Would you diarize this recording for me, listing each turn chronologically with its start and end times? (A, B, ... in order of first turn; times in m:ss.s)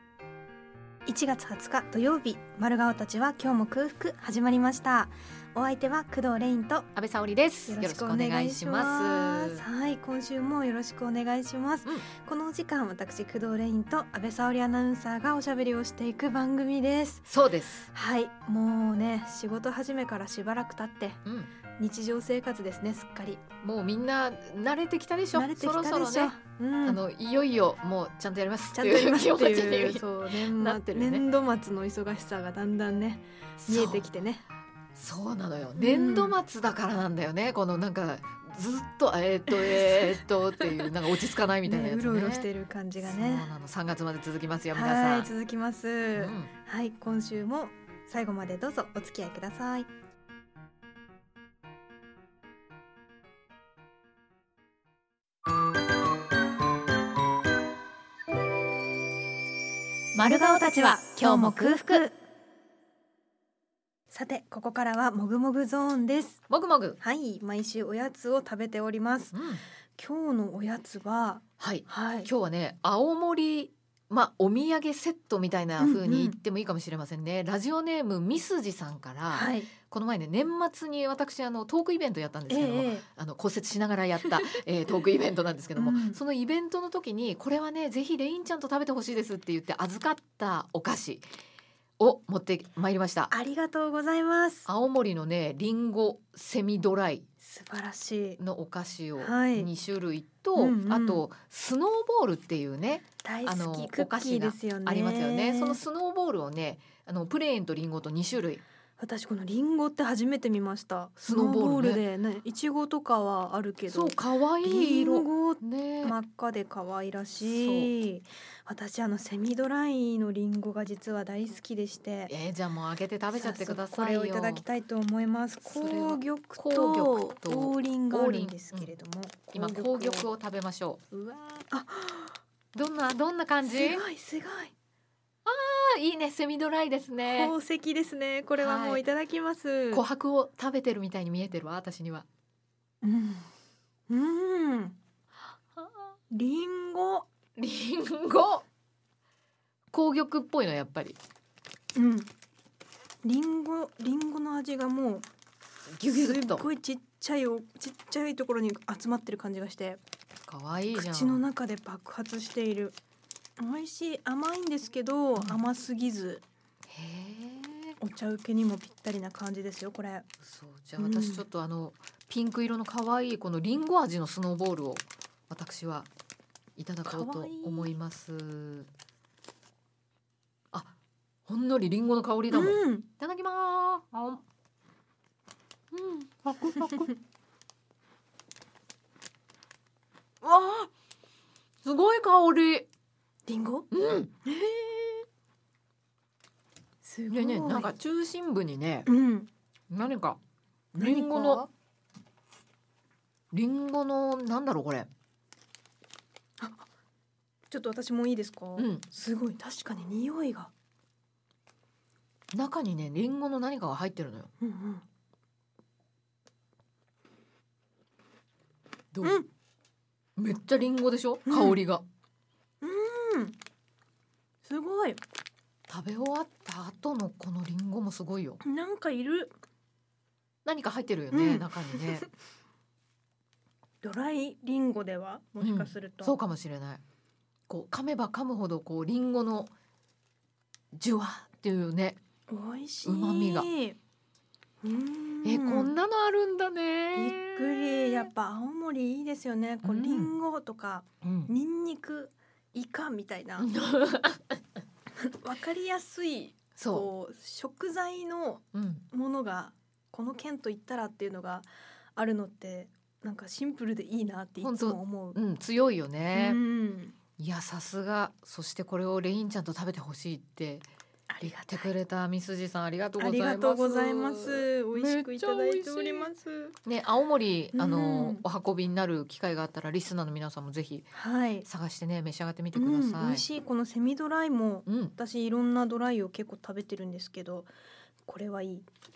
0:01.0-0:06.9 A
0:06.9-0:09.6 B
0:07.7-0:17.3 A
0:17.3-0:17.9 B
0:17.9-0:21.2 A
0:21.2-0:21.5 B
0:21.8-0:23.4 A
0:23.6-0:31.2 B
0:25.3-0:27.0 A
0:28.7-0:34.4 A
0:33.6-0:34.0 B
0:34.9-0:42.5 B
0:35.8-0:36.4 A
0:39.5-0:40.2 A
0:41.6-0:43.5 A
0:43.0-0:45.3 B
0:44.7-0:49.9 A
0:46.2-0:46.5 B
1:00.1-1:02.1 B
1:00.2-1:02.1 A
1:04.1-1:06.4 A
1:06.5-1:07.0 B
1:07.0-1:09.4 A
1:09.3-1:09.6 B
1:10.0-1:12.3 A
1:11.6-1:31.2 B
1:15.8-1:16.4 A
1:19.3-1:19.7 A
1:22.5-1:23.0 A
1:24.2-1:24.6 A
1:25.8-1:26.2 A
1:32.0-1:33.3 B
1:33.3-1:34.7 A
1:34.6-1:37.2 B
1:37.4-1:38.4 A
1:38.4-1:48.6 B
1:39.2-1:39.7 A
1:40.6-1:41.2 A
1:43.2-1:45.8 A
1:49.0-2:02.3 A
1:51.2-1:52.0 B
1:53.9-1:56.2 B
1:57.4-1:57.9 B
2:02.3-2:04.6 B
2:03.3-2:10.3 A
2:05.6-2:08.9 B
2:09.5-2:11.0 B
2:11.1-2:12.4 A
2:12.7-2:14.0 B
2:13.6-2:14.7 A
2:15.4-2:17.5 B
2:17.2-2:20.0 A
2:18.6-2:19.0 B
2:19.9-2:22.3 B
2:23.0-2:23.5 A
2:24.1-2:25.0 A
2:26.3-2:27.3 A
2:27.6-2:28.6 B
2:29.9-2:31.2 B
2:31.9-2:32.3 A
2:33.2-2:35.2 A
2:35.9-2:36.7 B
2:36.1-2:40.0 A
2:40.5-2:41.4 B
2:40.9-2:43.0 A
2:43.6-2:46.4 A
2:46.9-2:48.0 B
2:48.0-2:50.2 A
2:50.4-2:56.1 B
2:51.0-2:51.4 A
2:56.8-2:58.9 B
2:57.0-2:57.9 A
3:01.5-3:04.4 B
3:02.5-3:03.1 A
3:05.9-3:07.1 B
3:10.4-3:10.9 B
3:11.8-3:12.9 B
3:13.5-3:13.9 A
3:13.9-3:14.3 B
3:14.4-3:15.2 A
3:17.0-3:17.9 A
3:17.3-3:19.1 B
3:19.1-3:19.5 A
3:19.9-3:20.4 B
3:20.9-3:21.6 B
3:21.0-3:21.7 A
3:23.5-3:25.1 B
3:26.6-3:26.9 A
3:27.7-3:30.7 A
3:28.8-3:29.0 B
3:32.5-3:34.5 B
3:34.6-3:35.0 A
3:39.1-3:39.4 B
3:40.4-3:42.0 B
3:41.4-3:41.8 A
3:42.8-3:43.6 A
3:44.6-3:45.2 A
3:45.9-3:48.6 B
3:48.6-3:49.5 A
3:50.6-3:52.2 B
3:51.3-3:52.3 A
3:54.0-3:56.4 A
3:55.6-3:57.0 B
3:57.7-3:59.7 B
4:00.9-4:02.2 B
4:02.5-4:04.0 A
4:03.0-4:03.7 B
4:04.8-4:05.9 A
4:05.4-4:08.3 B
4:07.1-4:13.7 A
4:09.8-4:10.3 B
4:11.2-4:11.5 B
4:13.6-4:14.6 B
4:15.2-4:25.4 A
4:16.8-4:17.1 B
4:18.7-4:19.0 B
4:24.6-4:26.6 B
4:26.3-4:27.2 A
4:27.4-4:30.9 B
4:31.3-4:31.9 A
4:31.4-4:36.3 B
4:33.2-4:36.8 A
4:36.8-4:43.4 B
4:37.7-4:38.4 A
4:41.1-4:41.7 A
4:42.7-4:47.7 A
4:44.9-4:45.1 B
4:48.2-4:48.9 A